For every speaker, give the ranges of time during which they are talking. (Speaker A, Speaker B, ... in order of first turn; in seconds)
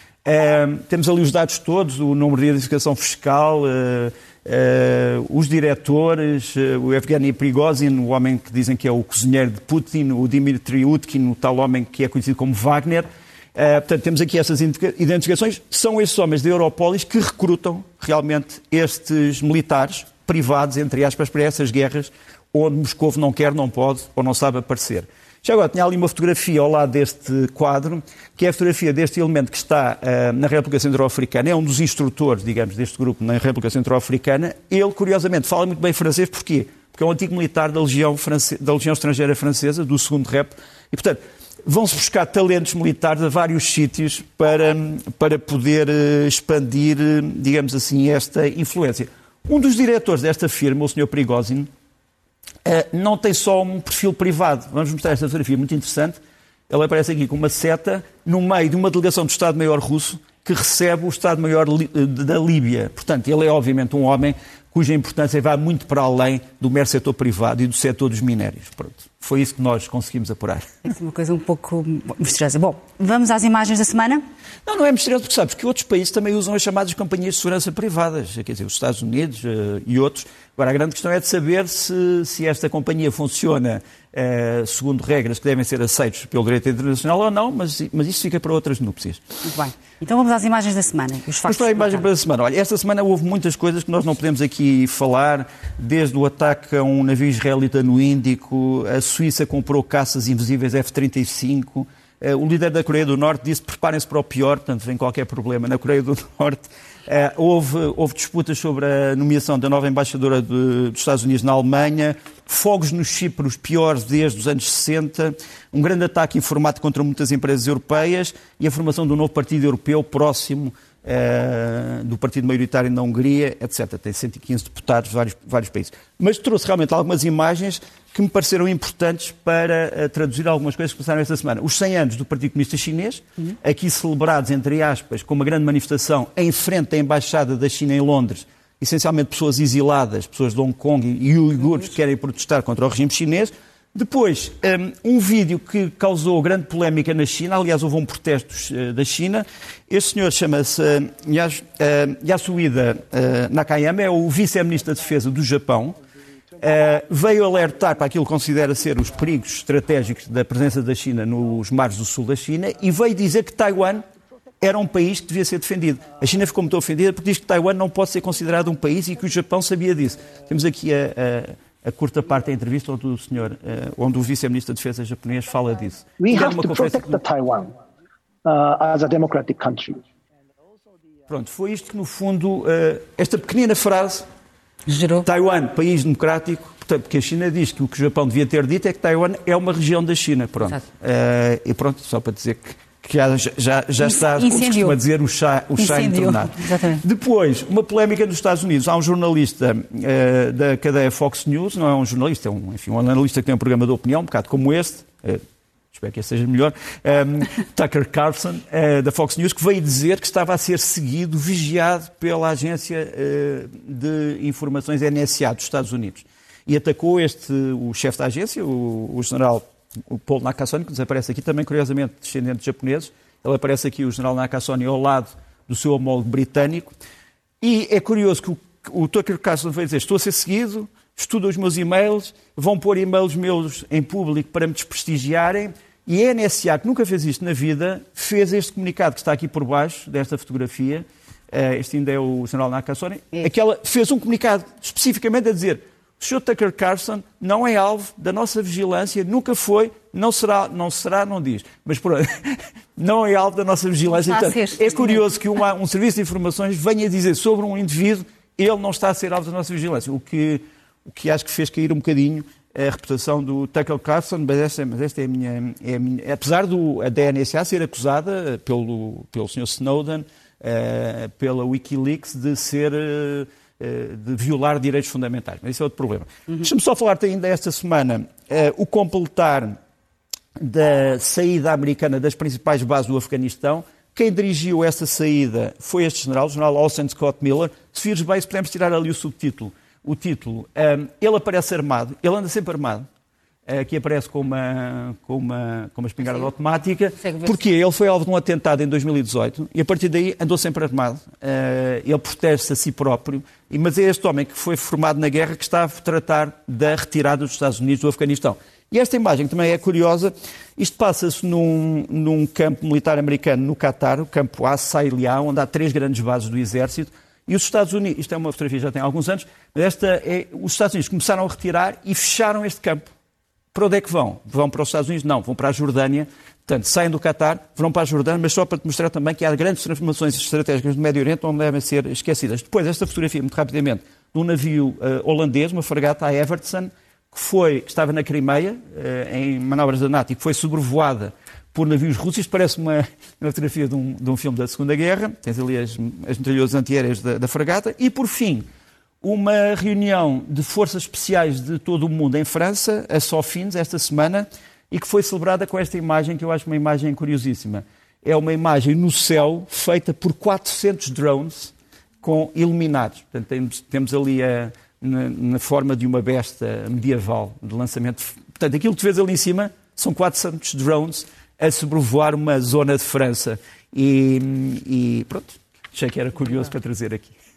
Speaker A: 0.2-51.7, 52.6-70.9, 74.7-89.2, 91.5-156.0, 156.6-164.1, 164.6-177.2, 181.3-184.3, 185.2-226.9, 227.6-279.8, 280.6-293.1, 293.7-323.1, 323.7-348.7, 349.2-377.4
Speaker B: 70.8-74.2, 89.4-92.1, 184.9-185.3, 194.0-195.0, 195.8-197.0, 254.1-255.2, 297.2-297.6
Speaker C: 176.2-177.8, 178.4-180.0